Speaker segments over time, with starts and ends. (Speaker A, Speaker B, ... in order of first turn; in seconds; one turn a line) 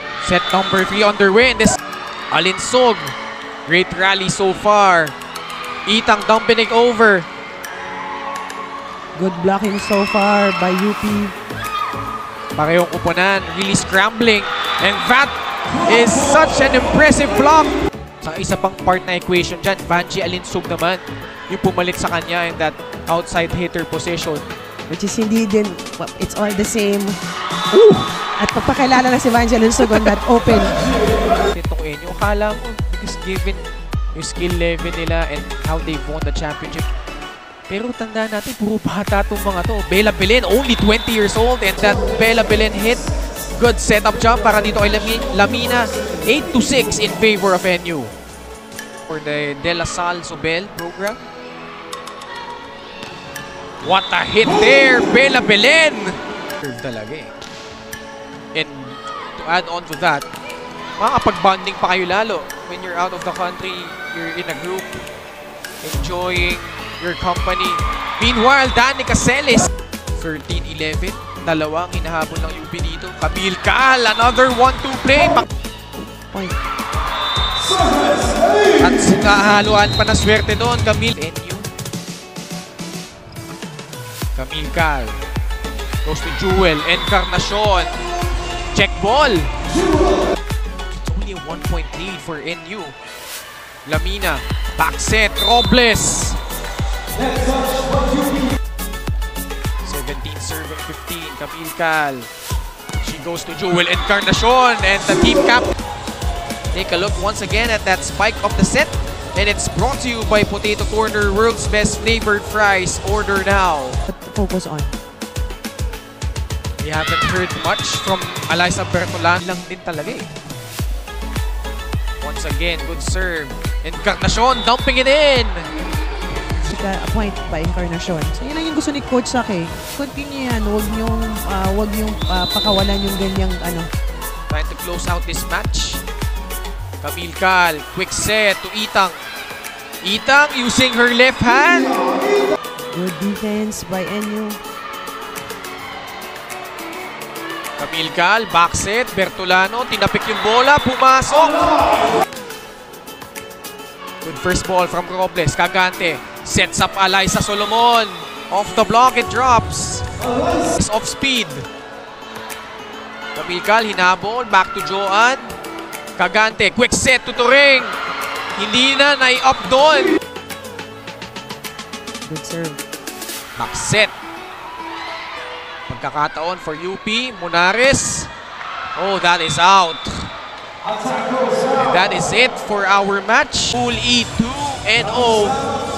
Speaker A: 0.2-1.8
Speaker A: 2.3-5.2
Speaker A: 5.9-7.3
Speaker B: 9.2-11.4
Speaker A: 12.6-15.3
Speaker A: 15.9-24.5
Speaker B: 24.9-27.2
Speaker A: 27.7-28.1
Speaker B: 28.4-30.8
Speaker A: 31.5-33.6
Speaker A: 34.1-36.9
Speaker A: 37.7-43.0
Speaker A: 43.6-48.1
Speaker A: 49.1-51.3
Speaker A: 53.8-57.3
Speaker A: 58.5-60.3
Speaker A: 61.0-65.0
Speaker A: 65.8-75.5
Speaker B: 76.3-76.6
Speaker A: 78.8-81.7
Speaker A: 84.3-85.2
Speaker A: 86.0-88.0
Speaker A: 88.7-89.5
Speaker A: 90.9-93.0
Speaker A: 93.8-96.4
Speaker A: 99.8-102.3
Speaker A: 103.0-105.7
Speaker A: 106.7-114.0
Speaker B: 114.1-115.0
Speaker A: 116.8-120.3
Speaker A: 122.2-125.7
Speaker B: 126.6-133.9
Speaker A: 134.5-136.0
Speaker A: 137.0-139.2
Speaker A: 140.0-142.0
Speaker B: 142.9-144.6
Speaker A: 147.8-151.7
Speaker A: 154.2-160.1
Speaker A: 160.7-161.7
Speaker A: 163.3-165.6
Speaker A: 166.2-168.0
Speaker A: 168.6-170.1
Speaker B: 172.2-172.8
Speaker A: 173.6-174.1
Speaker A: 175.9-178.3
Speaker A: 179.0-180.3
Speaker A: 181.8-185.6